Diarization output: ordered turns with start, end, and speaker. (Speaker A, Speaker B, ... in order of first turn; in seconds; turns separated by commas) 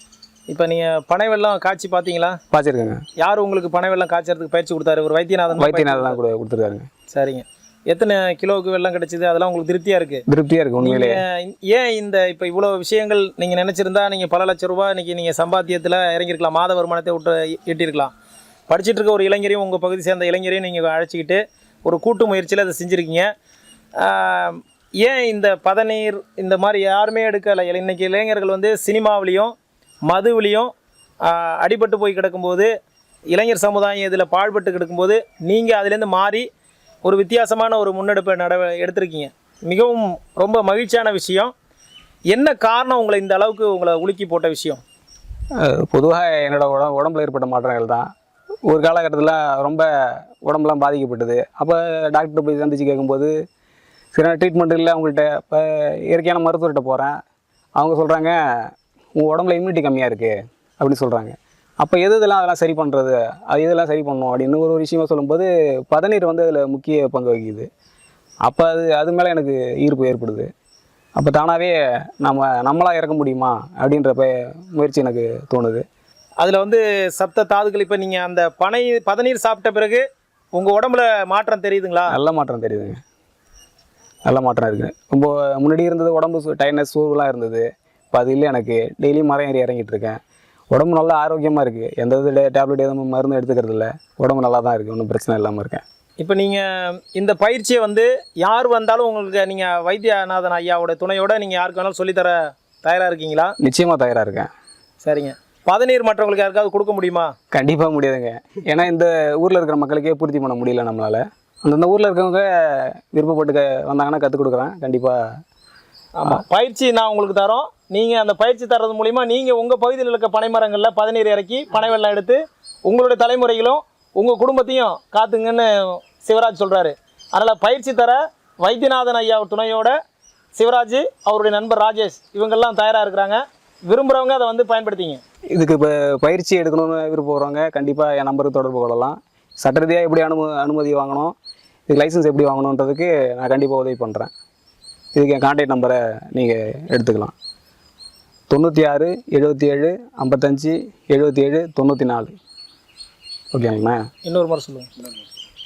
Speaker A: 0.5-2.4, Speaker B: 2.5-3.0, Speaker A: 3.2-6.2, Speaker B: 5.5-6.9, Speaker A: 7.1-10.2, Speaker B: 10.3-11.2, Speaker A: 10.8-18.1, Speaker A: 18.7-23.3, Speaker A: 24.0-29.5, Speaker A: 30.1-30.7, Speaker A: 31.2-32.7, Speaker A: 33.3-36.5, Speaker A: 37.0-41.5, Speaker A: 42.3-44.8, Speaker B: 45.6-48.1, Speaker B: 48.7-53.3, Speaker B: 54.1-57.2, Speaker B: 57.8-67.7, Speaker B: 68.5-70.5, Speaker B: 71.2-75.8, Speaker A: 76.4-82.2, Speaker B: 82.1-83.0, Speaker B: 84.2-90.2, Speaker B: 90.7-95.8, Speaker A: 96.2-103.5, Speaker B: 103.6-104.5, Speaker A: 105.0-107.3, Speaker B: 107.5-115.2, Speaker A: 116.2-129.9, Speaker A: 130.6-135.2, Speaker B: 135.5-141.3, Speaker B: 141.9-144.3, Speaker B: 145.1-147.3, Speaker B: 148.5-152.3, Speaker B: 153.5-154.0, Speaker A: 154.3-154.9